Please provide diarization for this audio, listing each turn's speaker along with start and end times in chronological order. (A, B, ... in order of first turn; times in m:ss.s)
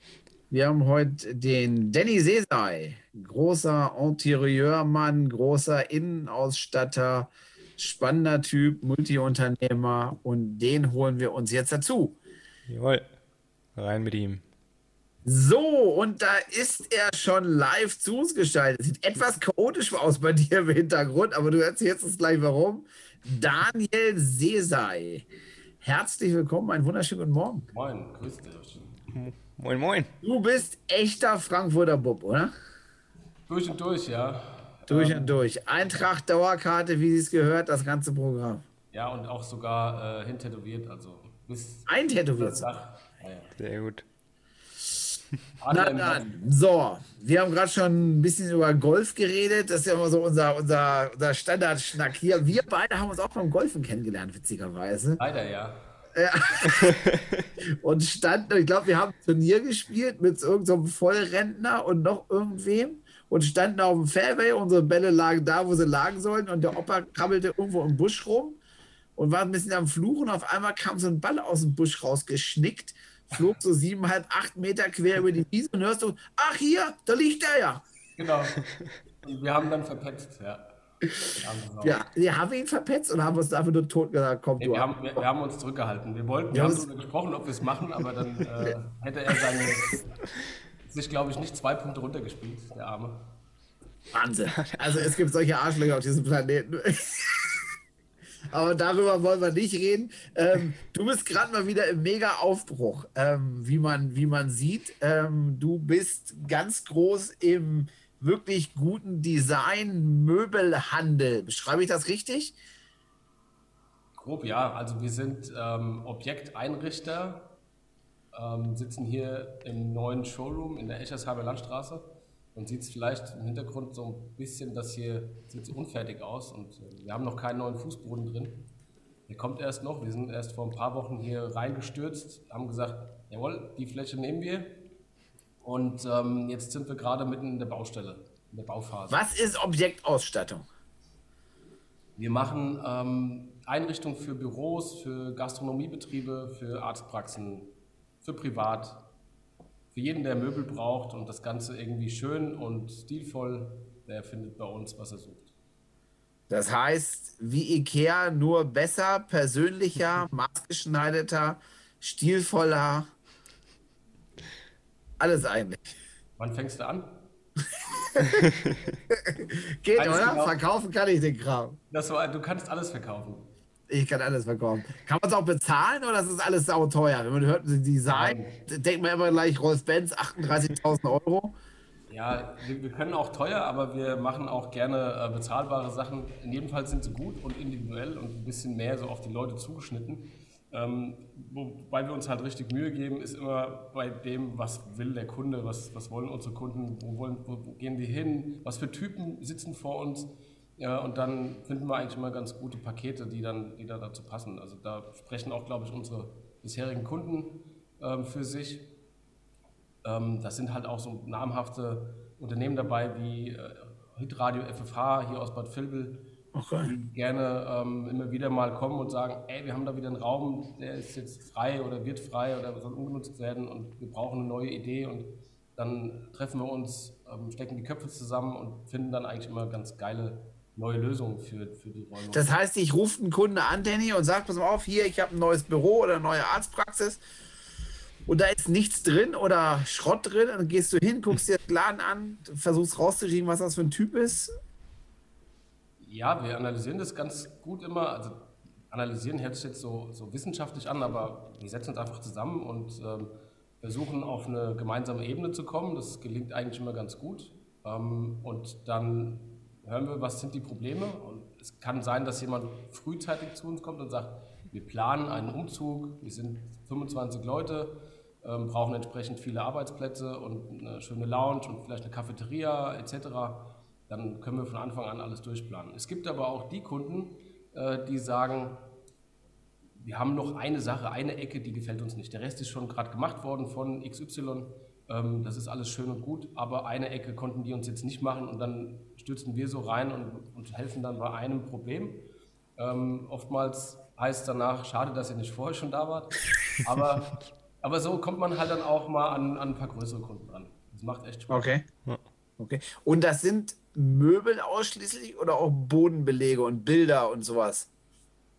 0:00.5-0:12.2 A
0:12.7-0:13.0 B
0:13.8-0:14.4 B
0:15.2-0:25.3 A
0:25.8-0:27.7 A
0:27.7-0:29.0 C
0:29.1-0:30.1 B
0:30.2-0:32.5 A
0:33.5-0:36.1 C
0:34.9-0:38.6 A
0:38.9-0:43.5 C
0:41.9-0:42.7 A
0:43.6-0:44.0 B
0:45.6-0:46.3 C
0:45.7-0:55.2 A
0:55.2-0:55.9 C
0:56.1-0:57.0 A
0:56.8-0:57.2 B
0:57.6-1:08.6 A
1:09.2-1:17.8 A
1:18.2-1:18.6 C
1:19.2-1:20.7 C
1:21.3-1:22.0 C
1:21.8-1:25.2 A
1:24.6-1:30.2 C
1:26.5-1:26.9 A
1:30.9-1:33.4 C
1:34.1-1:37.7 A
1:38.5-1:52.6 A
1:54.2-1:57.6 C
1:58.3-2:08.7 C
2:09.3-2:14.8 C
2:15.6-2:19.2 C
2:19.1-2:20.6 A
2:22.2-2:29.1 C
2:29.9-2:35.5 C
2:36.5-2:43.1 A
2:45.2-2:45.9 A
2:46.4-2:47.2 C
2:48.0-2:48.5 A
2:48.2-2:48.8 B
2:49.1-2:51.8 A
2:50.0-2:50.6 C
2:51.9-2:53.5 C
2:53.9-3:01.6 A
2:58.0-2:58.6 C
3:02.1-3:28.9 C
3:30.0-3:36.3 C
3:36.5-3:36.9 A
3:36.8-3:52.5 C
3:52.3-3:57.2 A
3:58.3-4:04.5 A
4:06.0-4:38.9 C
4:40.0-5:01.7 C
5:01.5-5:01.8 A
5:02.6-5:07.9 A